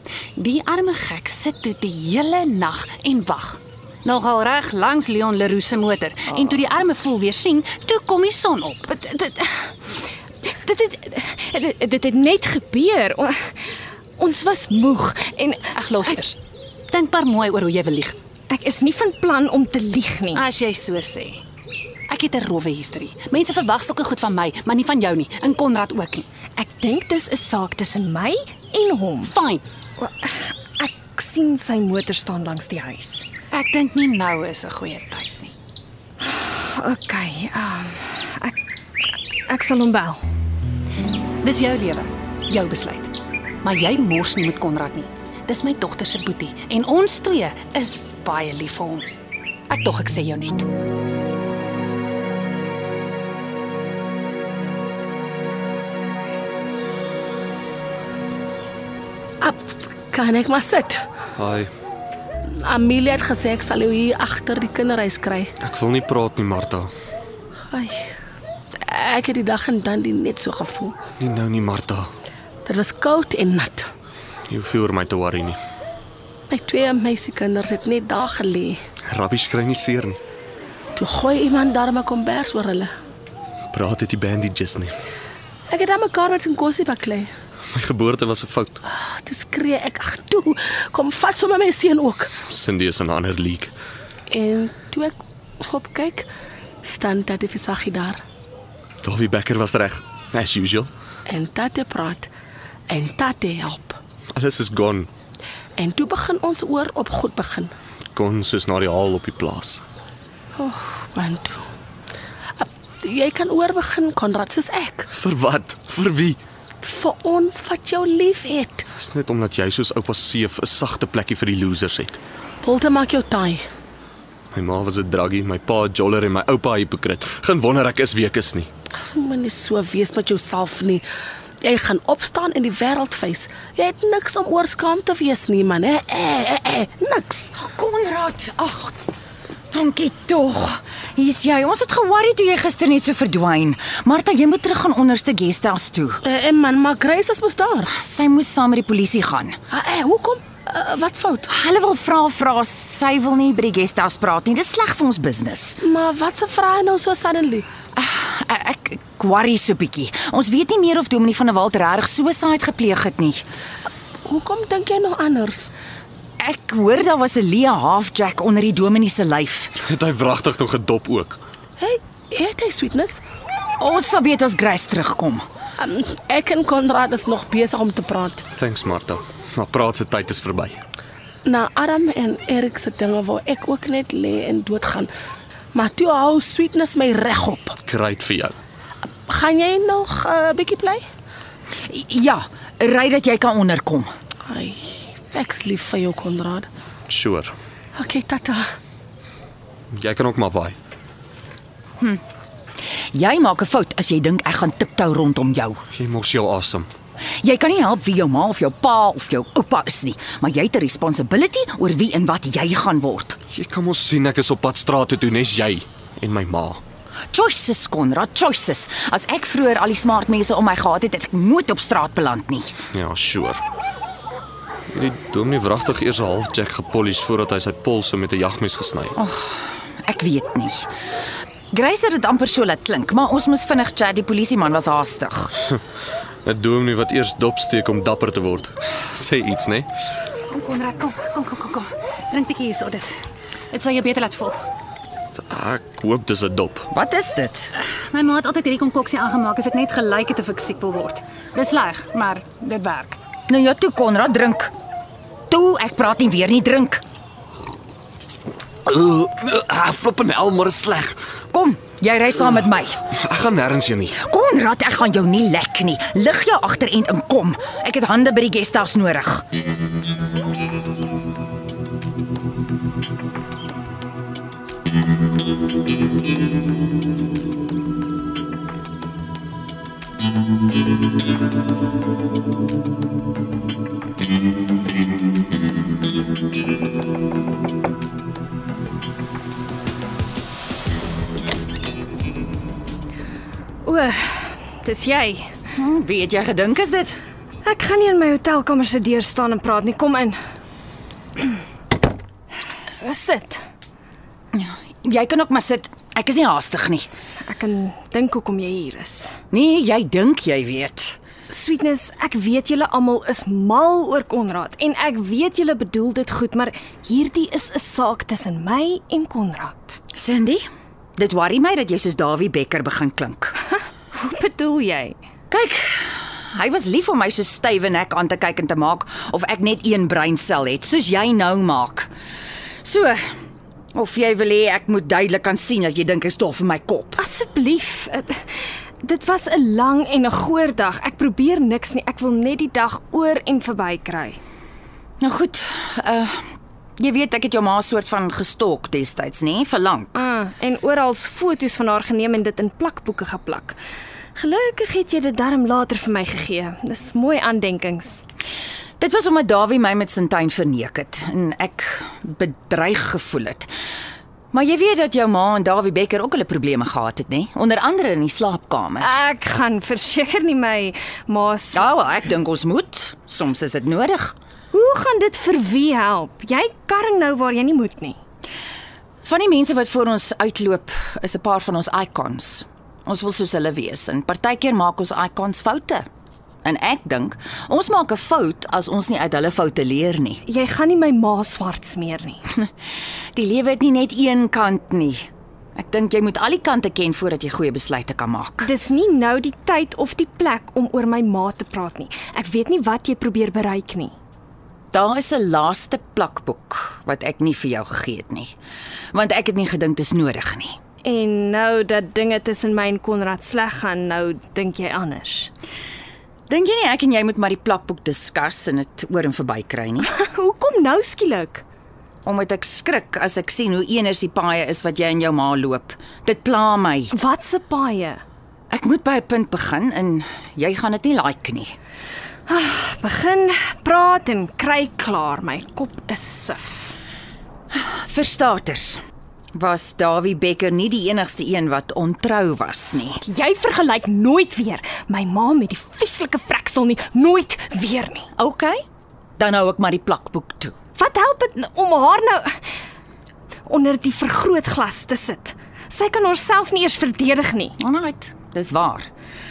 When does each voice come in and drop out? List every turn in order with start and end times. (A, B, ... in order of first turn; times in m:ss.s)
0:00.4-0:08.9 A
0:08.9-0:15.8 B
0:15.8-0:16.4 A
0:16.9-0:18.2 A
0:18.5-0:20.4 B
0:20.4-0:21.4 A
0:22.1-0:26.2 A
0:26.6-0:29.3 B
0:29.2-0:29.6 A
0:30.0-0:33.3 B
0:33.5-0:35.5 A
0:36.2-0:38.6 B
0:39.5-0:40.2 B
0:41.4-0:49.1 A
0:49.7-0:50.7 A
0:59.4-1:01.0 C
1:01.4-1:01.7 D
1:02.6-1:05.5 C
1:05.6-1:06.9 D
1:07.7-1:08.0 C
1:08.8-1:10.9 C
1:11.2-1:12.1 D
1:12.7-1:13.9 C
1:14.5-1:15.6 D
1:16.5-1:18.8 C
1:19.1-1:20.2 D
1:21.0-1:22.9 C
1:23.7-1:24.9 D
1:25.7-1:27.3 C
1:27.7-1:28.8 D
1:28.9-1:32.3 C
1:32.5-1:33.7 D
1:34.3-1:36.3 C
1:36.8-1:38.2 C
1:39.0-1:40.9 D
1:41.3-1:42.3 C
1:42.9-1:44.0 C
1:44.4-1:45.1 D
1:45.8-1:47.7 C
1:48.1-1:49.8 D
1:50.6-1:51.6 C
1:52.6-1:55.1 C
1:55.1-1:56.4 D
1:56.8-1:58.8 C
1:59.0-2:02.2 D
2:02.6-2:03.6 C
2:04.5-2:08.7 D
2:09.1-2:11.0 C
2:11.6-2:17.5 C
2:17.6-2:19.0 E
2:19.7-2:26.2 E
2:26.2-2:27.9 C
2:27.9-2:29.6 E
2:29.7-2:31.5 C
2:31.5-2:35.8 E
2:35.8-2:37.7 C
2:38.0-2:43.4 E
2:44.2-2:45.7 C
2:46.4-2:49.7 E
2:49.8-2:51.4 D
2:51.8-2:53.2 C
2:53.8-2:55.4 E
2:55.8-2:58.4 C
2:58.6-3:00.8 D
3:01.4-3:05.1 C
3:05.7-3:07.8 C
3:07.9-3:08.6 D
3:09.3-3:11.0 C
3:11.9-3:14.1 E
3:14.5-3:16.7 C
3:17.1-3:17.6 D
3:18.0-3:18.6 C
3:19.9-3:20.8 D
3:23.1-3:25.8 E
3:26.0-3:26.9 D
3:27.4-3:33.4 E
3:33.5-3:36.8 D
3:37.3-3:42.7 E
3:42.9-3:43.6 D
3:44.9-3:49.2 D
3:49.2-3:50.9 E
3:51.7-3:55.5 E
3:56.4-3:59.9 D
4:00.5-4:03.1 A
4:03.7-4:04.6 A
4:05.5-4:06.9 D
4:06.9-4:07.7 E
4:08.1-4:13.2 A
4:13.5-4:14.7 E
4:15.5-4:17.0 E
4:18.9-4:21.2 D
4:21.5-4:23.0 E
4:23.2-4:24.2 D
4:24.2-4:29.4 E
4:53.8-4:55.5 B
4:55.8-4:57.2 E
4:57.6-5:00.4 B
5:03.0-5:03.6 B
5:04.5-5:07.1 E
5:07.5-5:09.4 B
5:09.5-5:11.2 E
5:11.5-5:20.0 B
5:20.2-5:20.6 E
5:21.2-5:23.6 E
5:24.1-5:25.2 B
5:25.5-5:32.1 E
5:32.8-5:33.2 E
5:34.0-5:37.2 E
5:37.2-5:38.4 B
5:39.0-5:44.4 B
5:45.2-5:50.2 E
5:50.2-5:53.8 B
5:54.4-5:58.2 B
5:59.0-6:03.7 E
6:04.5-6:09.1 E
6:09.0-6:11.9 B
6:11.7-6:14.3 E
6:14.7-6:18.2 B
6:19.2-6:26.1 E
6:26.6-6:30.4 E
6:30.5-6:32.4 B
6:33.4-6:38.7 E
6:38.6-6:44.2 B
6:44.9-6:48.6 E
6:49.1-6:50.8 E
6:51.0-6:55.5 B
6:56.5-7:00.1 E
7:00.0-7:01.6 B
7:02.2-7:07.1 E
7:07.1-7:08.2 B
7:08.7-7:11.7 E
7:12.5-7:17.0 B
7:17.7-7:19.0 E
7:19.6-7:23.2 E
7:23.2-7:28.3 B
7:28.4-7:28.8 E
7:29.4-7:30.8 E
7:31.0-7:32.6 B
7:33.7-7:37.8 B
7:37.8-7:39.1 E